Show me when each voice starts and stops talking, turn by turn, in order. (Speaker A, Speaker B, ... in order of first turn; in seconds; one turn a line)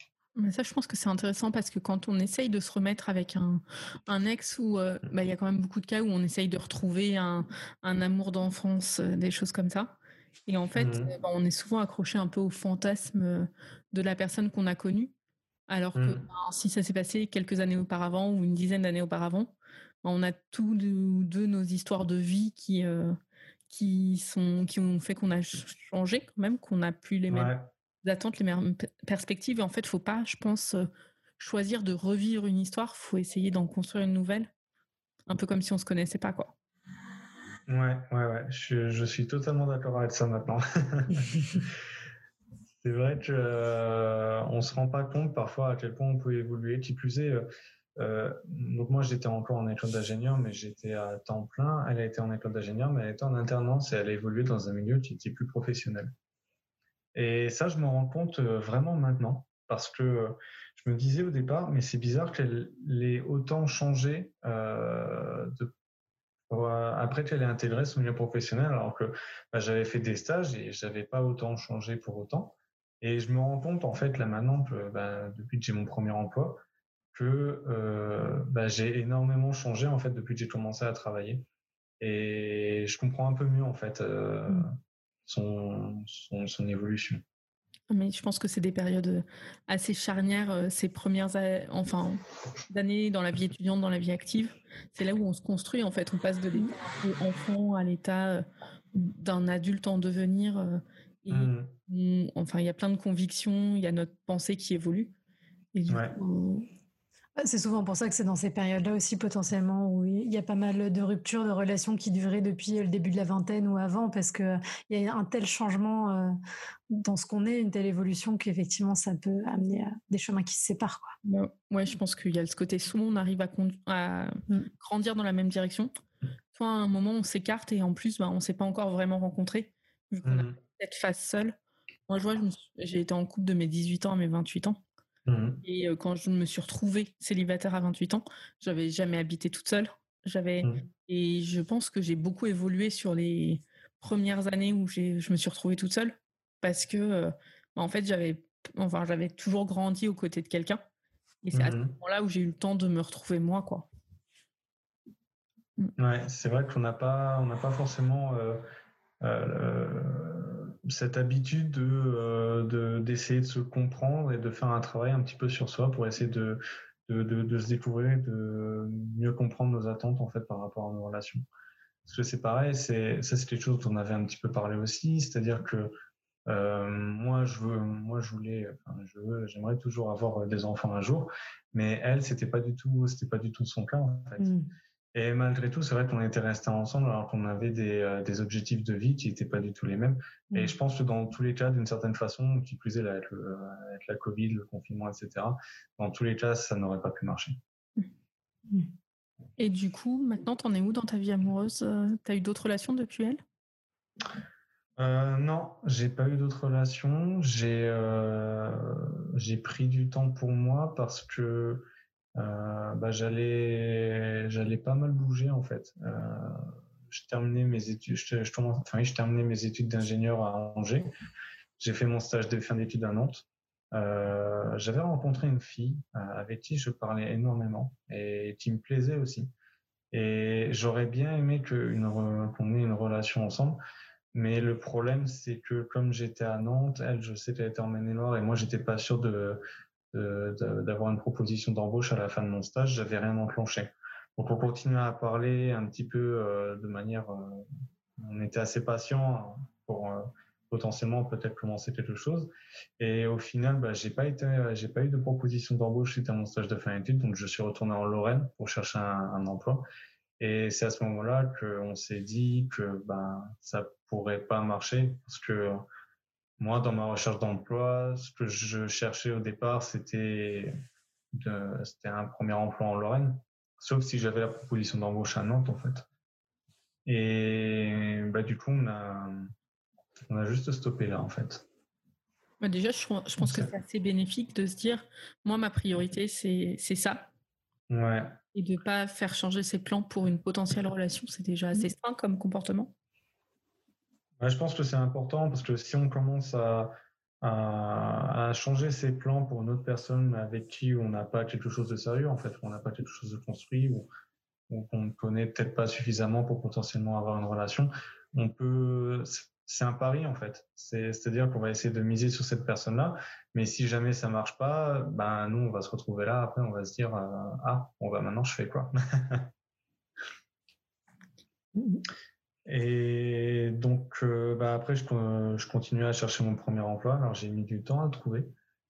Speaker A: 0.3-15.1
Speaker B: 10.7-11.1
Speaker A: 15.7-23.2
Speaker B: 15.9-16.2
Speaker A: 23.7-34.5
Speaker B: 27.3-27.7
Speaker A: 35.3-36.5
Speaker B: 37.7-41.8
Speaker B: 42.8-56.1
Speaker B: 57.1-65.7
Speaker B: 66.5-76.6
Speaker B: 77.1-81.5
Speaker B: 82.0-84.7
Speaker B: 85.2-87.2
Speaker A: 87.9-105.1
Speaker B: 101.3-101.7
Speaker A: 105.7-106.7
Speaker B: 105.9-106.2
Speaker C: 107.4-116.3
Speaker C: 116.9-121.1
Speaker A: 121.2-125.9
Speaker A: 126.5-131.6
Speaker B: 130.2-130.6
Speaker A: 132.1-134.8
Speaker B: 135.2-135.6
Speaker A: 135.6-150.8
Speaker A: 151.4-153.9
Speaker B: 151.5-151.9
Speaker B: 156.0-158.6
Speaker B: 159.2-171.4
Speaker B: 172.1-175.9
Speaker B: 176.5-184.5
Speaker C: 184.4-184.7
Speaker B: 185.1-197.6
Speaker A: 199.6-203.4
Speaker B: 205.0-221.1
Speaker B: 221.8-229.5
Speaker B: 230.1-233.8
Speaker B: 234.3-259.9
Speaker B: 260.4-265.9
Speaker B: 266.6-270.7
Speaker B: 271.3-276.1
Speaker B: 277.1-279.5
Speaker B: 280.3-281.6
Speaker A: 282.6-287.3
Speaker B: 283.4-283.7
Speaker B: 287.9-288.4
Speaker A: 288.5-292.9
Speaker B: 294.4-304.1
Speaker B: 304.7-319.5
Speaker C: 321.8-322.0
Speaker B: 322.6-328.5